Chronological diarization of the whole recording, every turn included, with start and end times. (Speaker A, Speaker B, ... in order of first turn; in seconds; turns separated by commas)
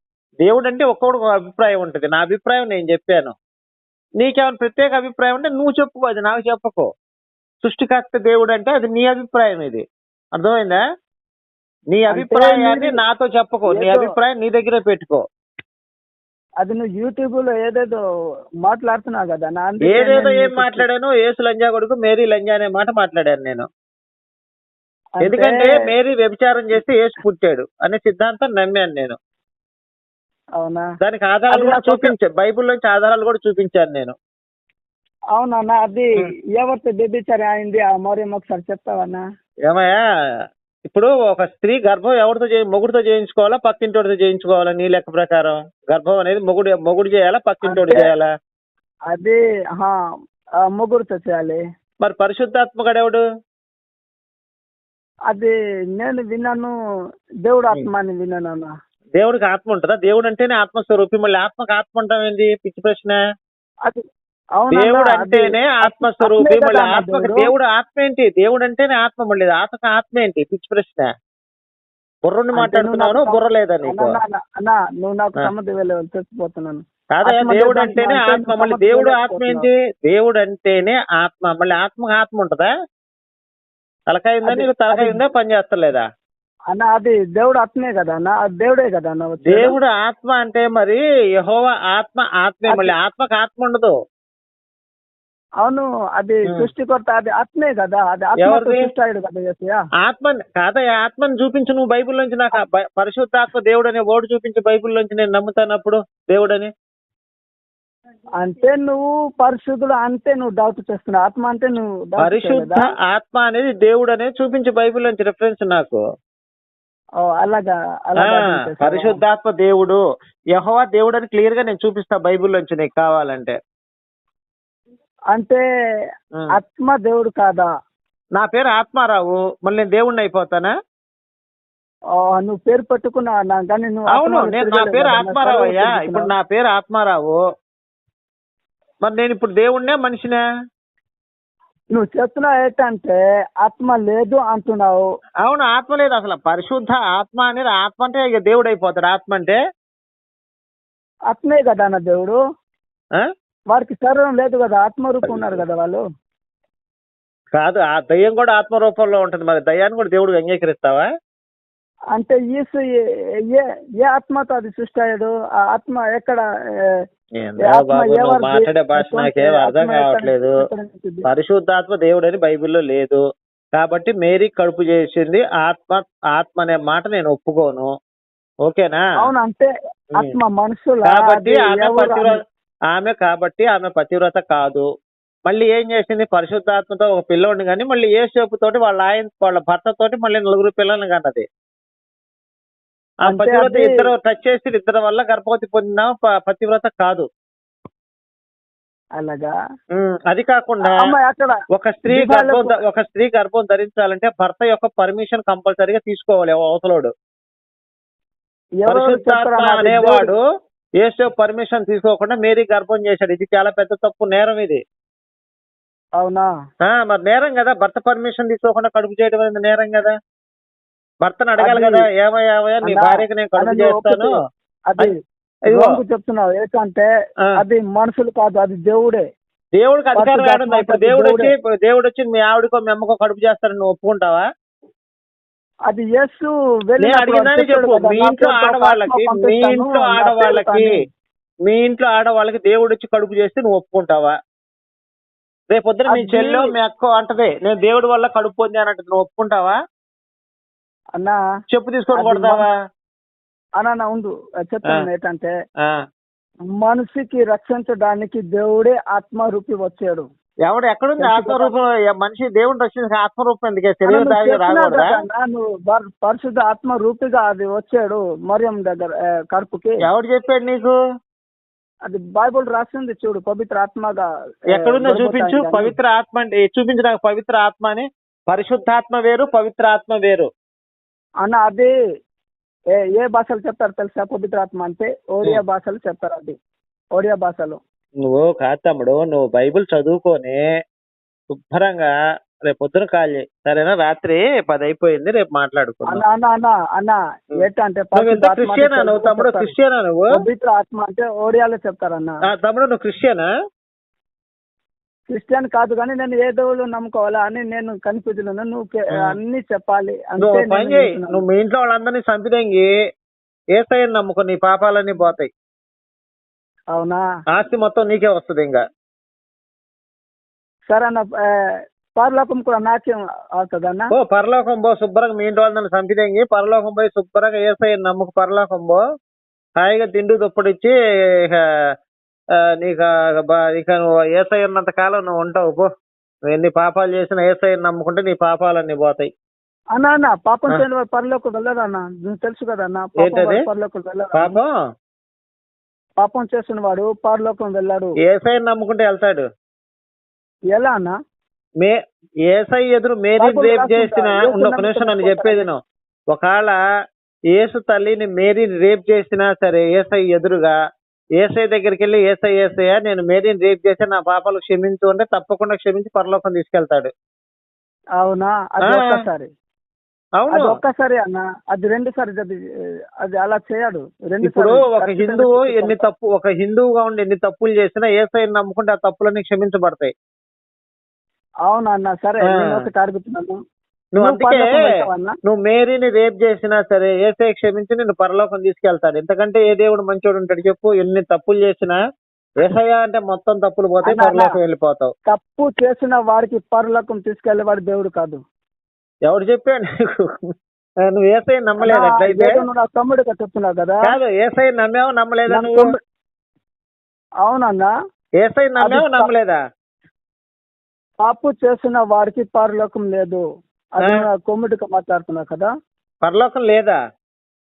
Speaker A: 0.4-3.4, Speaker A: 4.2-6.9, Speaker A: 7.6-9.8, Speaker A: 10.3-10.8, Speaker A: 11.9-15.2, Speaker B: 12.1-13.0, Speaker B: 13.7-14.1, Speaker B: 16.6-18.0, Speaker B: 18.7-20.9, Speaker A: 19.9-23.7, Speaker B: 25.2-25.7, Speaker A: 25.2-29.2, Speaker B: 30.6-30.9, Speaker A: 31.0-34.1, Speaker B: 31.5-32.1, Speaker B: 35.4-39.2, Speaker A: 39.7-40.0, Speaker A: 40.9-48.3, Speaker B: 47.7-48.1, Speaker B: 49.1-49.9, Speaker B: 50.7-51.6, Speaker A: 52.0-53.2, Speaker B: 55.3-56.7, Speaker B: 57.5-58.7, Speaker A: 59.2-63.2, Speaker B: 64.6-67.5, Speaker A: 64.7-71.1, Speaker A: 72.3-74.2, Speaker B: 72.6-79.7, Speaker A: 77.2-82.7, Speaker A: 84.1-86.0, Speaker B: 84.5-85.2, Speaker B: 86.7-89.8, Speaker A: 89.5-93.9, Speaker B: 92.7-92.9, Speaker B: 95.6-99.8, Speaker A: 98.4-98.9, Speaker A: 100.0-106.7, Speaker B: 108.4-112.8, Speaker A: 112.2-116.0, Speaker B: 117.2-119.2, Speaker A: 118.2-120.0, Speaker A: 120.5-123.6, Speaker B: 125.3-125.6, Speaker B: 126.6-127.7, Speaker A: 128.4-130.7, Speaker B: 132.2-136.3, Speaker A: 134.1-137.4, Speaker A: 139.0-140.4, Speaker B: 141.9-145.0, Speaker A: 145.4-149.6, Speaker B: 151.3-152.4, Speaker B: 153.7-156.0, Speaker A: 155.2-155.6, Speaker A: 157.6-161.1, Speaker B: 162.2-166.4, Speaker A: 167.4-170.6, Speaker B: 167.7-171.3, Speaker A: 171.3-173.2, Speaker A: 173.8-177.9, Speaker A: 178.7-179.1, Speaker B: 179.2-182.4, Speaker A: 181.1-182.3, Speaker A: 182.9-184.9, Speaker A: 185.5-191.4, Speaker B: 193.3-194.1, Speaker A: 193.3-197.3, Speaker B: 199.2-199.5, Speaker A: 199.9-201.1, Speaker B: 200.9-201.6, Speaker A: 201.8-207.1, Speaker B: 202.1-202.8, Speaker B: 208.8-210.3, Speaker A: 208.9-210.4, Speaker A: 211.0-214.8, Speaker B: 216.2-216.5, Speaker A: 216.8-220.2, Speaker A: 221.2-224.3, Speaker B: 221.6-222.1, Speaker B: 222.8-224.3, Speaker B: 224.9-225.2, Speaker B: 225.7-227.1, Speaker B: 227.6-229.2, Speaker A: 229.8-234.4, Speaker B: 230.2-231.5, Speaker B: 235.9-241.1, Speaker A: 237.0-240.9, Speaker A: 241.7-244.3, Speaker A: 245.7-249.8, Speaker B: 246.1-246.7, Speaker A: 251.7-252.7, Speaker B: 252.2-252.6, Speaker B: 253.8-255.5, Speaker B: 256.8-260.2, Speaker A: 260.7-265.1, Speaker B: 261.2-261.7, Speaker B: 264.1-270.0, Speaker A: 270.1-270.9, Speaker B: 272.1-274.2, Speaker A: 274.8-280.5, Speaker B: 274.8-275.9, Speaker B: 281.4-281.9, Speaker B: 283.1-286.6, Speaker B: 287.2-287.8, Speaker A: 288.2-290.6, Speaker A: 291.7-292.1, Speaker A: 292.7-296.2, Speaker B: 296.1-299.7, Speaker A: 298.1-300.3, Speaker B: 300.4-302.4, Speaker A: 302.6-303.5, Speaker B: 305.3-311.4, Speaker A: 310.4-312.9, Speaker A: 313.8-315.5, Speaker B: 316.9-317.2, Speaker A: 317.5-318.8, Speaker B: 320.9-321.2, Speaker B: 322.2-324.1, Speaker A: 324.1-329.0, Speaker A: 329.8-331.6, Speaker A: 332.8-335.9, Speaker A: 336.5-339.3, Speaker B: 340.0-344.6, Speaker A: 343.2-343.6, Speaker A: 344.4-344.7, Speaker B: 346.2-348.1, Speaker A: 348.3-349.4, Speaker B: 350.7-351.1, Speaker A: 352.5-355.8, Speaker B: 353.4-355.7, Speaker A: 356.3-356.8, Speaker A: 357.5-360.7, Speaker A: 361.4-367.1, Speaker B: 368.2-369.5, Speaker A: 368.8-369.1, Speaker A: 370.4-370.7, Speaker B: 370.5-372.5, Speaker B: 373.2-376.0, Speaker A: 374.4-380.1, Speaker B: 381.7-383.6, Speaker A: 382.5-382.8, Speaker A: 384.2-384.8, Speaker B: 384.2-385.3, Speaker A: 385.5-392.0, Speaker A: 392.6-395.1, Speaker B: 394.0-394.5, Speaker B: 395.3-398.4, Speaker A: 399.2-400.3, Speaker A: 401.1-402.6, Speaker B: 401.9-404.0, Speaker A: 404.1-405.8, Speaker B: 405.5-405.9, Speaker B: 407.4-407.9, Speaker A: 408.4-409.6, Speaker B: 408.8-409.3, Speaker B: 411.2-413.4, Speaker B: 414.0-415.7, Speaker A: 416.2-417.0